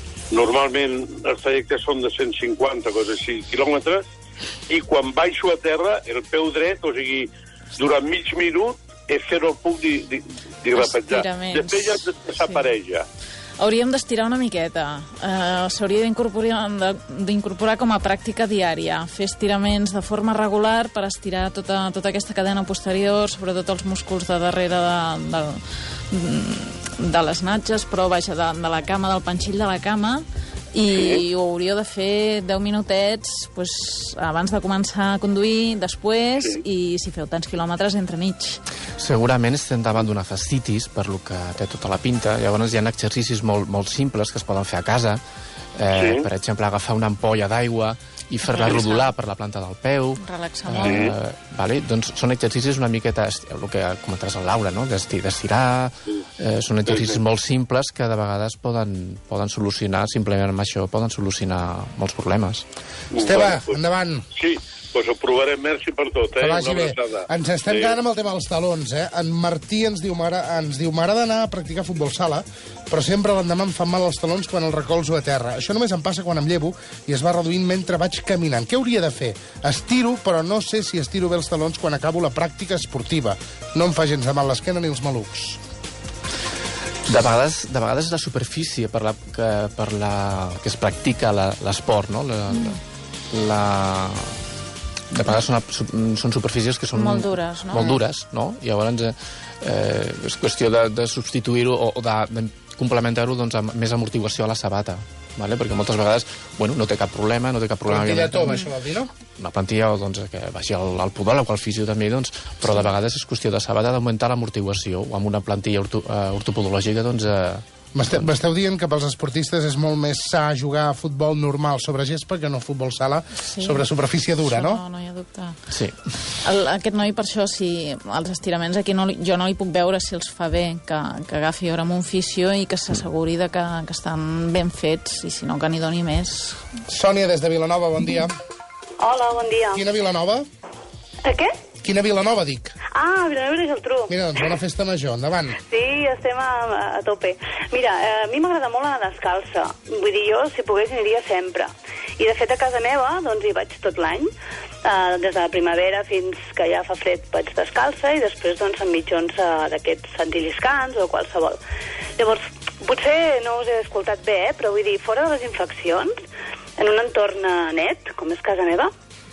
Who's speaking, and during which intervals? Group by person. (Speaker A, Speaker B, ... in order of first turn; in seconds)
Speaker A: 0.3-4.0, 4.7-13.0, 30.9-31.2, 45.9-46.3, 50.8-51.1, 56.9-57.2, 63.1-63.8, 64.3-68.0
Speaker B: 10.7-12.6, 13.6-38.6, 48.5-49.1, 50.2-51.1, 96.9-98.0, 123.5-123.8, 124.4-125.6, 126.4-136.6
Speaker C: 39.0-45.2, 45.8-62.6, 87.1-92.8, 93.3-94.4, 95.1-108.6, 109.4-118.2, 125.7-126.0
Speaker D: 63.1-64.3, 66.4-85.6, 107.9-109.1, 117.9-124.8, 136.9-138.3, 139.7-140.5, 141.8-142.8, 144.1-145.6
Speaker E: 139.0-139.8, 141.2-141.6, 142.9-144.5, 145.7-154.3, 154.8-161.6, 162.2-166.2, 166.8-168.9